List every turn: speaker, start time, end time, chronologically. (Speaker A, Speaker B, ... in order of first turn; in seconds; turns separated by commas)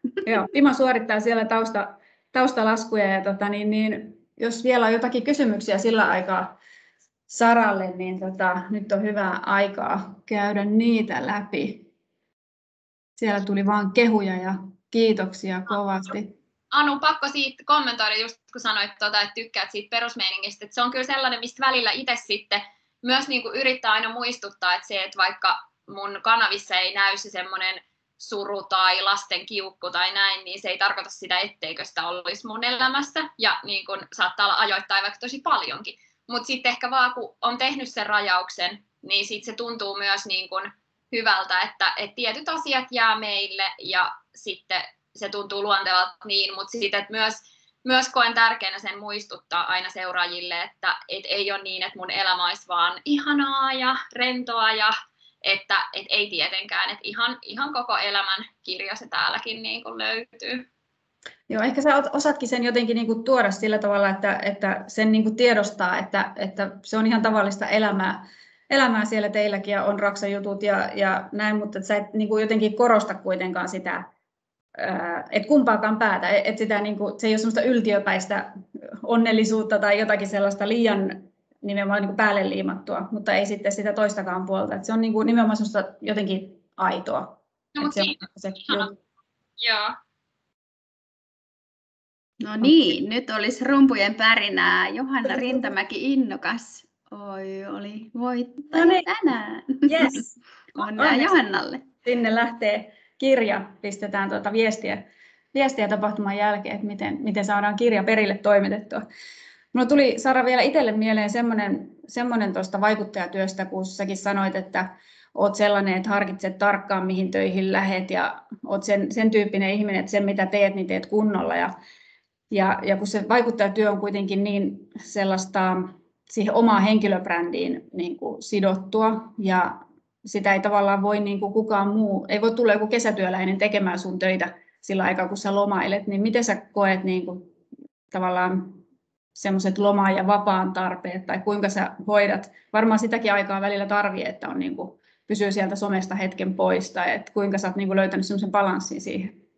Speaker A: 0.2-6.6, Speaker A: 7.3-11.9, Speaker A: 13.2-16.3, Speaker B: 16.7-54.9, Speaker B: 55.4-60.6, Speaker A: 61.5-74.1, Speaker A: 74.8-89.0, Speaker B: 87.8-88.9, Speaker B: 89.6-90.0, Speaker C: 92.4-100.2, Speaker A: 95.2-95.7, Speaker A: 98.7-99.1, Speaker A: 99.8-101.4, Speaker C: 100.8-101.8, Speaker A: 102.0-109.0, Speaker A: 109.7-121.8, Speaker A: 122.5-137.5, Speaker A: 138.1-138.8, Speaker A: 139.3-149.4